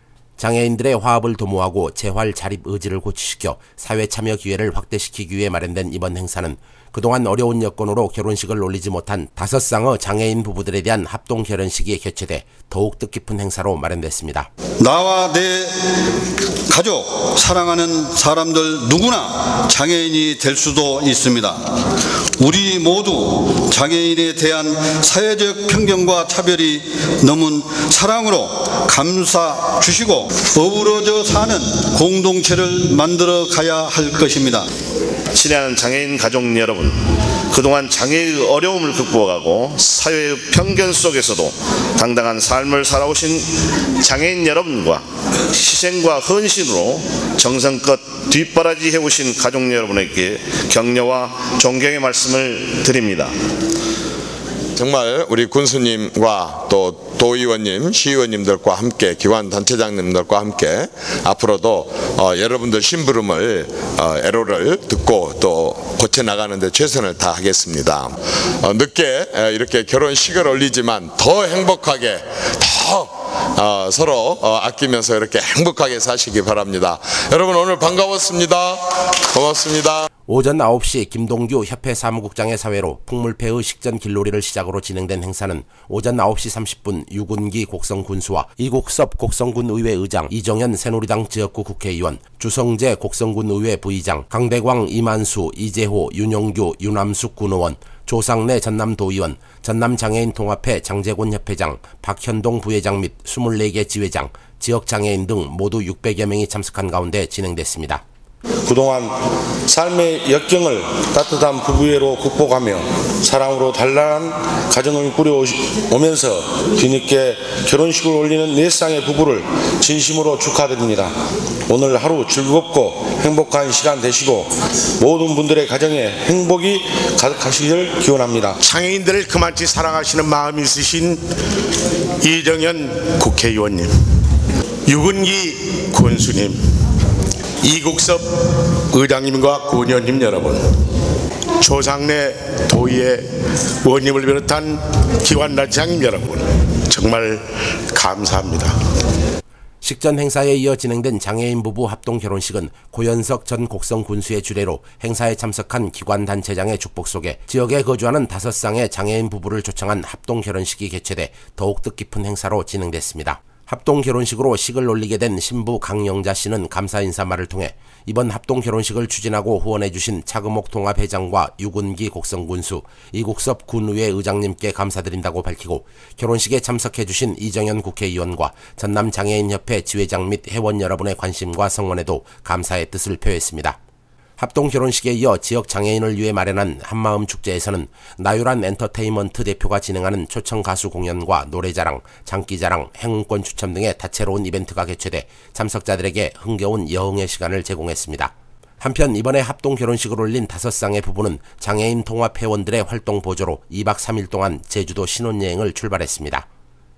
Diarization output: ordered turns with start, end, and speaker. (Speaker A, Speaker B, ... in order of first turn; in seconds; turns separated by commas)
Speaker A: 0.4-14.5, Speaker B: 14.8-16.0, Speaker B: 16.7-21.6, Speaker B: 22.4-34.7, Speaker C: 35.4-37.0, Speaker C: 37.5-43.5, Speaker C: 44.0-53.3, Speaker D: 54.8-80.1, Speaker A: 80.3-108.0, Speaker E: 108.7-109.2, Speaker E: 109.7-121.1, Speaker E: 121.7-128.6, Speaker F: 128.6-131.2, Speaker F: 132.2-133.9, Speaker F: 134.9-136.6, Speaker F: 137.6-138.3, Speaker F: 138.9-140.6, Speaker F: 141.6-143.2, Speaker F: 143.8-148.8, Speaker A: 149.8-183.8, Speaker A: 184.4-206.5